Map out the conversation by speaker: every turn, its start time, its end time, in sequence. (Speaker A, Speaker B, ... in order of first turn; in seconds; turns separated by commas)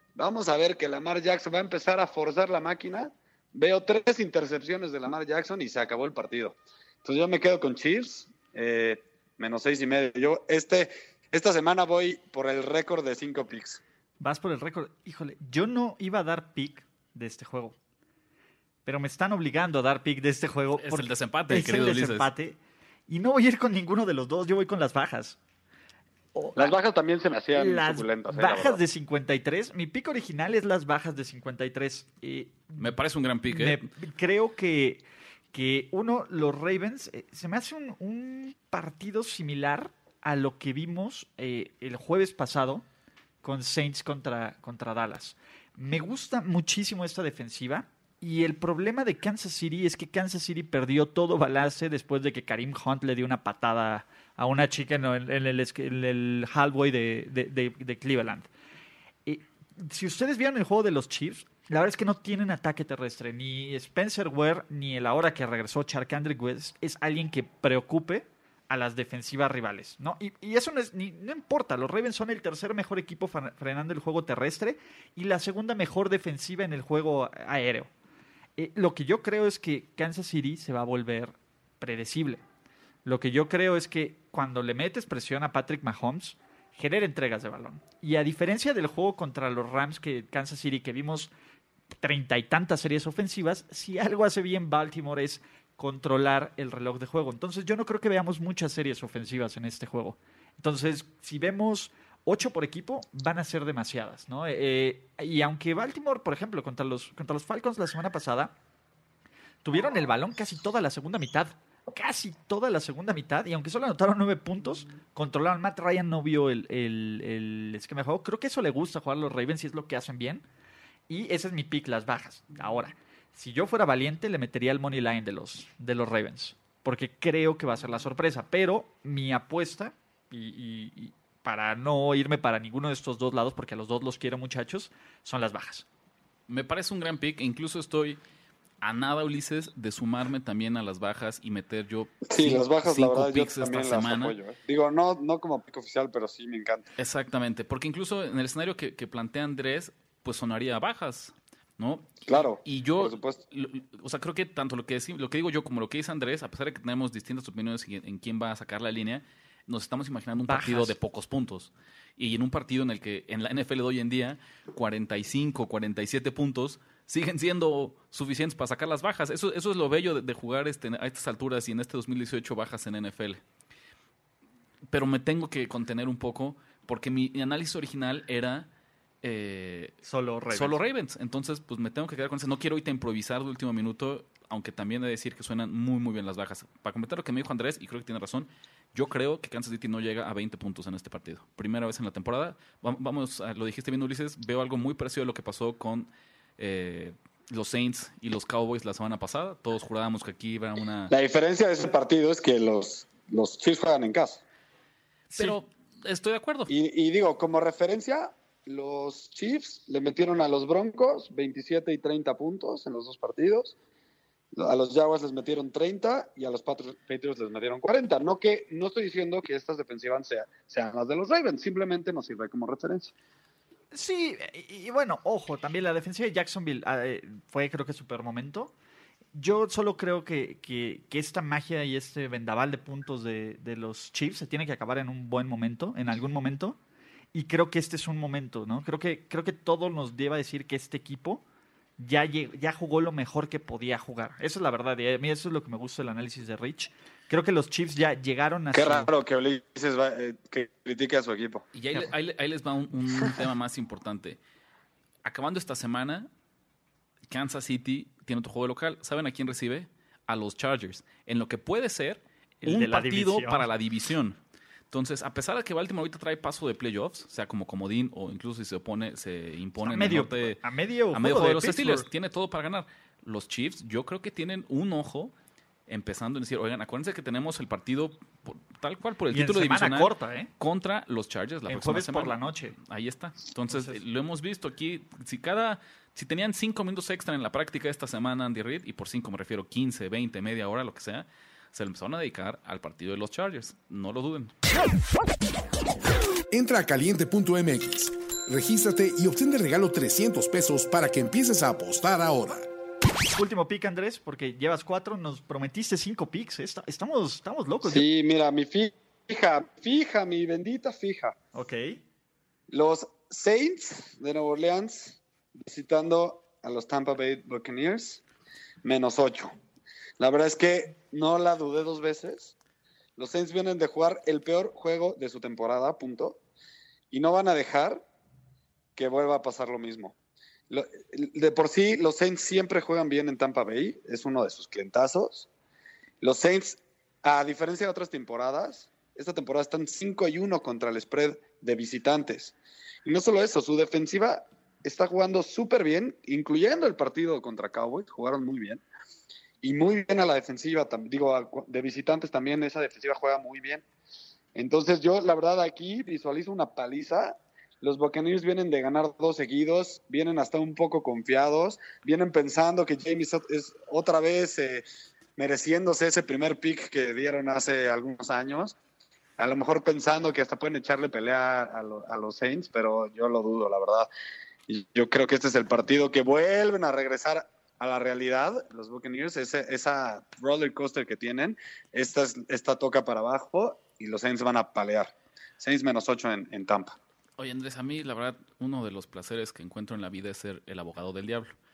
Speaker A: 0.2-13.8, Speaker B: 14.2-17.8, Speaker B: 18.9-22.6, Speaker C: 20.8-22.3, Speaker B: 23.1-25.4, Speaker B: 26.4-26.7, Speaker A: 26.6-28.8, Speaker B: 27.6-33.0, Speaker C: 32.8-33.9, Speaker B: 33.5-42.9, Speaker B: 43.4-58.5, Speaker B: 59.3-77.9, Speaker B: 78.6-82.4, Speaker B: 83.0-91.3, Speaker B: 92.0-108.5, Speaker B: 109.6-120.4, Speaker B: 121.1-135.9, Speaker C: 136.5-138.2, Speaker C: 138.8-144.4, Speaker A: 142.3-146.9, Speaker C: 147.0-173.4, Speaker A: 152.3-153.4, Speaker B: 160.5-160.9, Speaker C: 174.9-178.7, Speaker C: 179.2-180.0, Speaker B: 180.1-180.8, Speaker C: 180.5-201.1, Speaker A: 201.1-204.4, Speaker C: 205.3-206.7, Speaker A: 206.7-213.8, Speaker A: 214.5-223.1, Speaker B: 223.9-228.7, Speaker B: 229.3-236.8, Speaker B: 237.3-241.4, Speaker B: 242.0-249.1, Speaker A: 248.7-251.7, Speaker C: 251.7-254.4, Speaker C: 255.2-256.3, Speaker C: 257.3-264.4, Speaker B: 262.6-263.7, Speaker C: 264.9-270.6, Speaker B: 269.8-272.1, Speaker C: 271.1-275.3, Speaker C: 275.9-294.5, Speaker B: 279.3-280.5, Speaker B: 281.7-282.8, Speaker B: 283.7-284.0, Speaker D: 296.5-302.7, Speaker B: 303.3-308.0, Speaker A: 307.8-311.4, Speaker B: 311.5-312.0, Speaker A: 312.7-318.2, Speaker A: 318.8-319.6, Speaker A: 320.2-322.5, Speaker A: 323.2-326.4, Speaker A: 327.1-328.1, Speaker A: 329.0-330.1, Speaker A: 330.7-335.5, Speaker A: 336.2-342.5, Speaker A: 343.1-348.8, Speaker A: 349.6-353.8, Speaker A: 354.6-364.8, Speaker A: 365.4-368.8, Speaker A: 369.4-374.1, Speaker A: 374.7-387.0, Speaker C: 387.4-391.5